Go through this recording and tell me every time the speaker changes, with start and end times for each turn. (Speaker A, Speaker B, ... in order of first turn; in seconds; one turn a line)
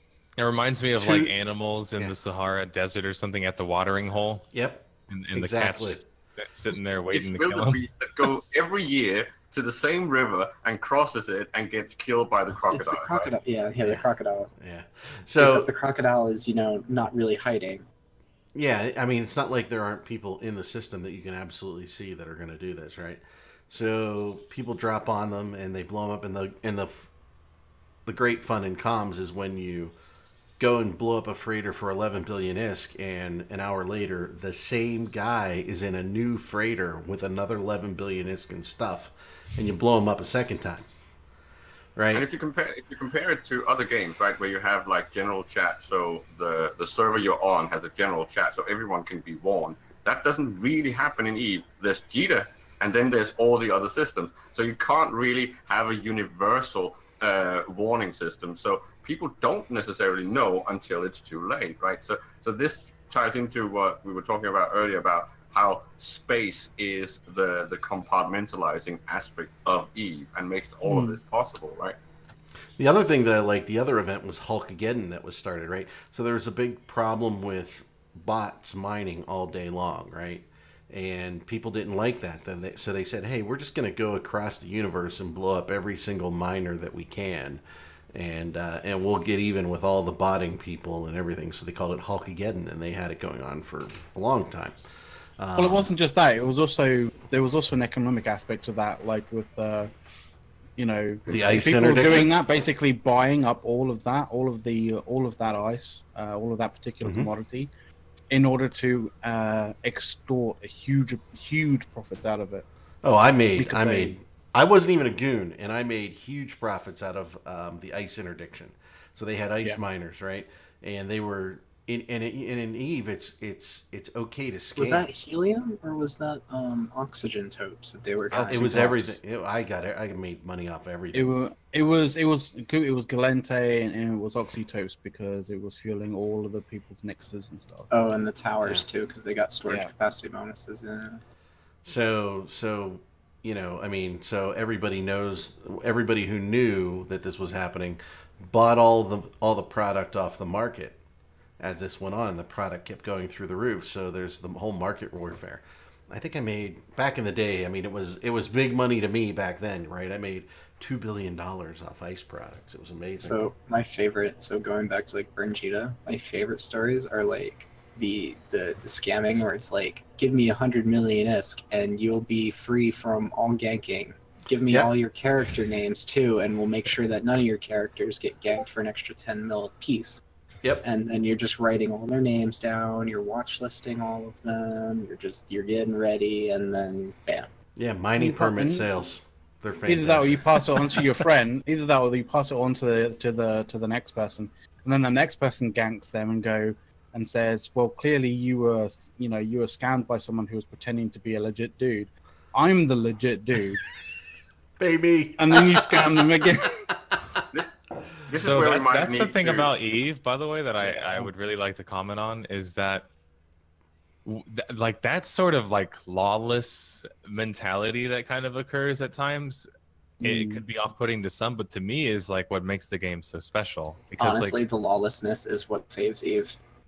Speaker A: 0.4-4.5
Speaker B: 0.9-1.3
Speaker B: 4.5-6.0
Speaker A: 5.1-7.8
Speaker C: 7.1-13.3
Speaker D: 12.7-14.5
Speaker B: 14.6-15.7
Speaker D: 15.4-17.9
Speaker B: 18.5-27.1
Speaker B: 28.1-29.9
Speaker B: 30.6-40.9
Speaker B: 42.0-42.2
Speaker C: 42.1-72.0
Speaker E: 70.8-71.2
Speaker B: 72.8-94.8
Speaker B: 95.4-95.9
Speaker E: 95.5-99.9
Speaker E: 100.8-107.7
Speaker B: 101.3-102.4
Speaker B: 107.0-107.3
Speaker E: 108.3-112.7
Speaker B: 113.0-125.0
Speaker E: 113.6-114.2
Speaker D: 124.8-129.2
Speaker B: 128.3-131.3
Speaker E: 128.6-128.9
Speaker E: 131.1-137.9
Speaker D: 137.9-141.2
Speaker E: 139.7-139.9
Speaker B: 141.8-151.0
Speaker B: 151.6-163.5
Speaker D: 163.2-180.2
Speaker D: 180.8-187.5
Speaker B: 187.8-190.6
Speaker E: 188.2-188.9
Speaker E: 189.9-203.8
Speaker B: 204.8-207.1
Speaker E: 205.4-206.8
Speaker C: 208.3-209.7
Speaker A: 208.3-213.1
Speaker E: 210.8-211.3
Speaker A: 214.2-219.7
Speaker A: 220.2-224.6
Speaker E: 220.2-220.6
Speaker D: 224.2-226.6